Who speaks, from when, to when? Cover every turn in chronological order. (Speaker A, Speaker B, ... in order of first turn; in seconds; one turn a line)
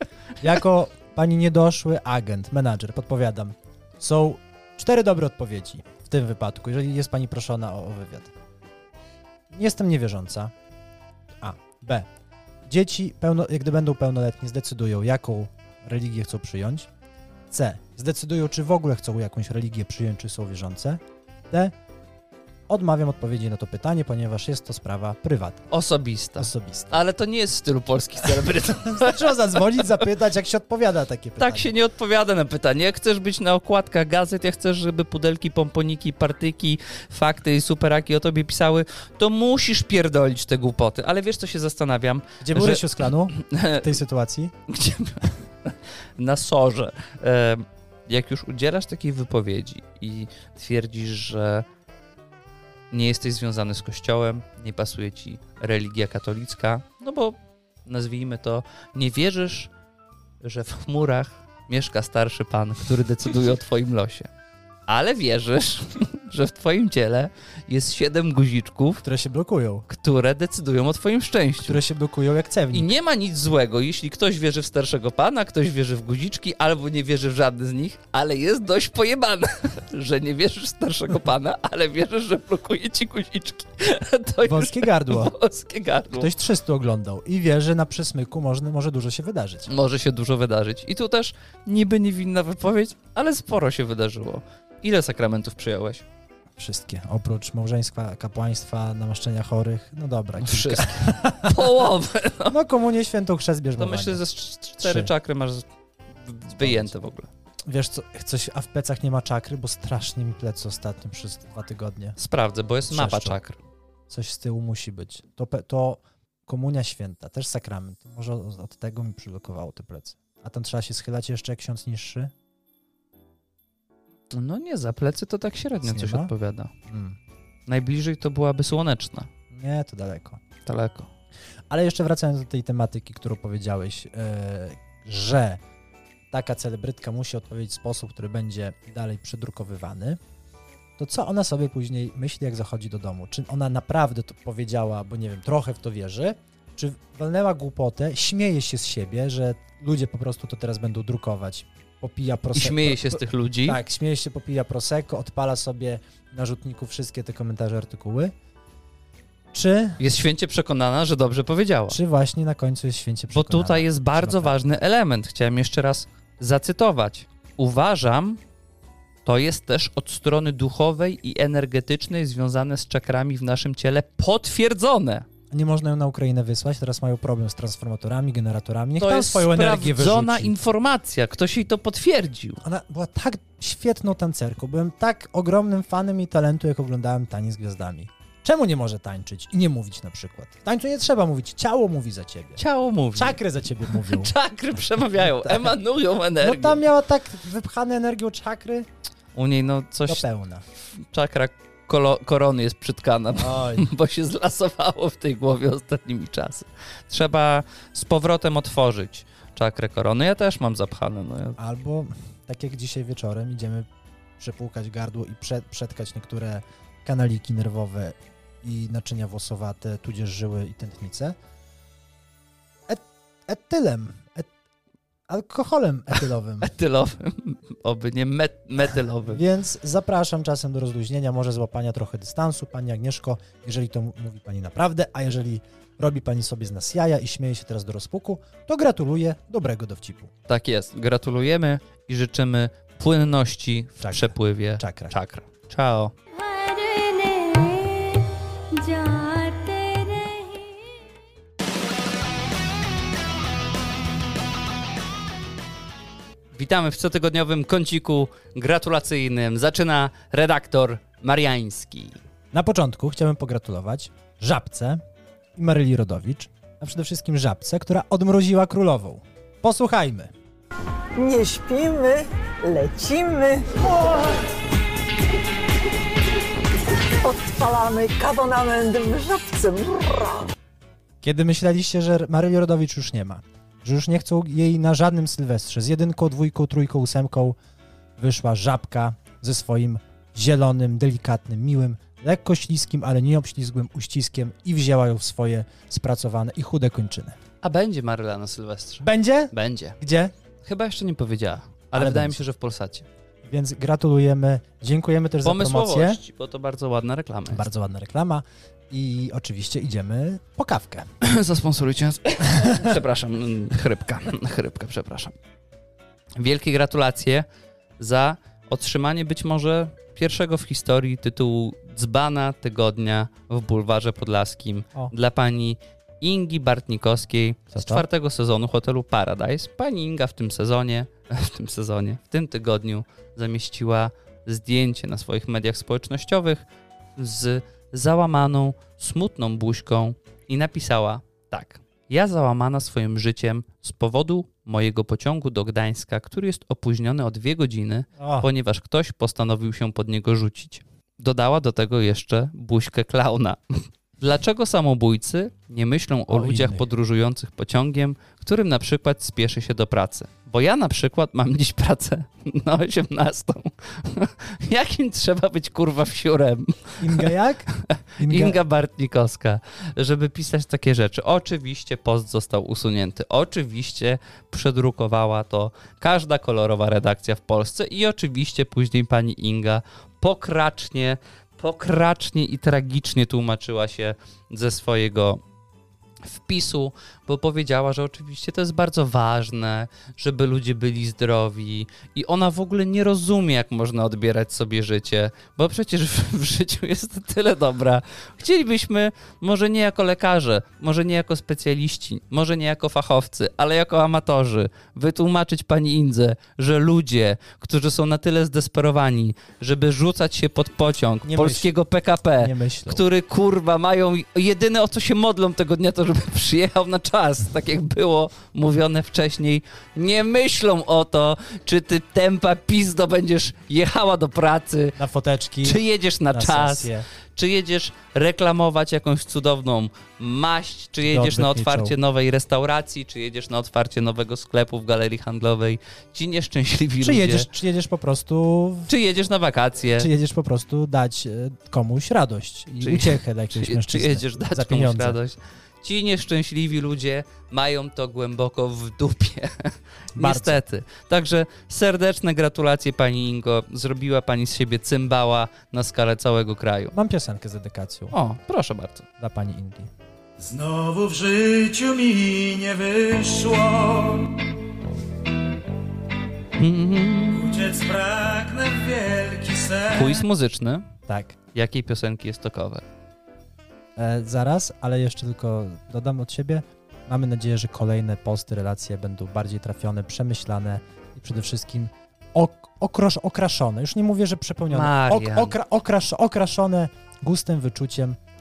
Speaker A: 0.4-8.3
Speaker A: 9.5-10.5
Speaker A: 11.4-12.1
Speaker A: 12.7-16.9
Speaker A: 17.5-21.8
Speaker A: 22.7-25.7
Speaker B: 25.7-29.4
Speaker A: 26.4-27.0
Speaker A: 28.6-31.7
Speaker B: 31.4-44.0
Speaker A: 42.4-44.5
Speaker B: 44.7-51.7
Speaker B: 52.9-59.7
Speaker B: 60.4-64.3
Speaker B: 64.9-69.0
Speaker A: 69.0-69.8
Speaker B: 69.9-71.8
Speaker A: 71.7-72.9
Speaker B: 72.7-86.3
Speaker A: 84.4-85.3
Speaker A: 86.1-89.7
Speaker B: 89.7-96.0
Speaker A: 96.6-101.9
Speaker B: 100.4-102.6
Speaker A: 102.5-104.2
Speaker B: 103.8-107.3
Speaker A: 104.7-105.1
Speaker A: 106.6-106.9
Speaker A: 107.7-112.2
Speaker B: 112.2-113.6
Speaker A: 112.9-113.4
Speaker A: 114.1-122.3
Speaker B: 124.3-126.7
Speaker A: 125.8-126.3
Speaker A: 126.9-127.2
Speaker B: 127.7-129.3
Speaker A: 129.5-130.4
Speaker B: 130.7-131.1
Speaker A: 131.7-135.6
Speaker A: 136.3-140.2
Speaker A: 141.0-158.3
Speaker B: 152.6-153.8
Speaker A: 159.5-160.0
Speaker B: 160.0-162.0
Speaker A: 161.9-164.6
Speaker B: 163.3-168.4
Speaker B: 169.2-175.3
Speaker A: 175.5-180.5
Speaker B: 179.0-182.6
Speaker A: 182.6-192.6
Speaker B: 192.6-196.8
Speaker A: 193.2-194.3
Speaker A: 195.2-195.8
Speaker A: 196.4-198.9
Speaker B: 199.3-200.3
Speaker A: 200.1-200.6
Speaker B: 200.9-211.6
Speaker A: 203.3-203.9
Speaker A: 211.6-213.9
Speaker A: 214.4-221.4
Speaker A: 222.9-224.5
Speaker A: 225.3-226.7
Speaker B: 226.6-229.4
Speaker A: 229.2-240.3
Speaker B: 240.5-246.1
Speaker A: 244.0-245.2
Speaker C: 246.3-250.9
Speaker B: 256.5-262.2
Speaker A: 262.5-265.0
Speaker A: 265.6-270.3
Speaker D: 271.2-274.4
Speaker D: 277.2-280.5
Speaker A: 281.2-287.6
Speaker A: 288.2-297.4
Speaker B: 297.6-300.0
Speaker A: 299.0-300.3
Speaker B: 300.6-303.1
Speaker A: 301.9-302.4
Speaker A: 303.5-306.2
Speaker B: 305.4-307.7
Speaker A: 307.5-311.1
Speaker B: 311.2-315.4
Speaker A: 312.5-312.9
Speaker B: 316.4-317.5
Speaker B: 318.0-336.6
Speaker A: 327.7-328.1
Speaker B: 337.2-385.4
Speaker A: 348.2-348.5
Speaker A: 356.3-356.9
Speaker A: 367.0-368.6
Speaker B: 386.2-425.0
Speaker A: 411.2-411.7
Speaker A: 412.4-413.1
Speaker A: 425.0-427.1
Speaker B: 425.6-437.5
Speaker A: 431.1-432.0
Speaker A: 437.0-438.9
Speaker B: 438.9-440.1
Speaker A: 439.9-445.2
Speaker B: 442.8-456.9
Speaker A: 450.2-450.6
Speaker A: 456.9-458.1
Speaker B: 458.1-459.1
Speaker A: 459.2-459.9
Speaker E: 460.4-464.4
Speaker B: 466.6-467.7
Speaker E: 467.4-469.9
Speaker B: 469.9-470.9
Speaker A: 471.1-471.4
Speaker B: 471.5-472.9
Speaker A: 474.0-488.2
Speaker B: 484.7-485.6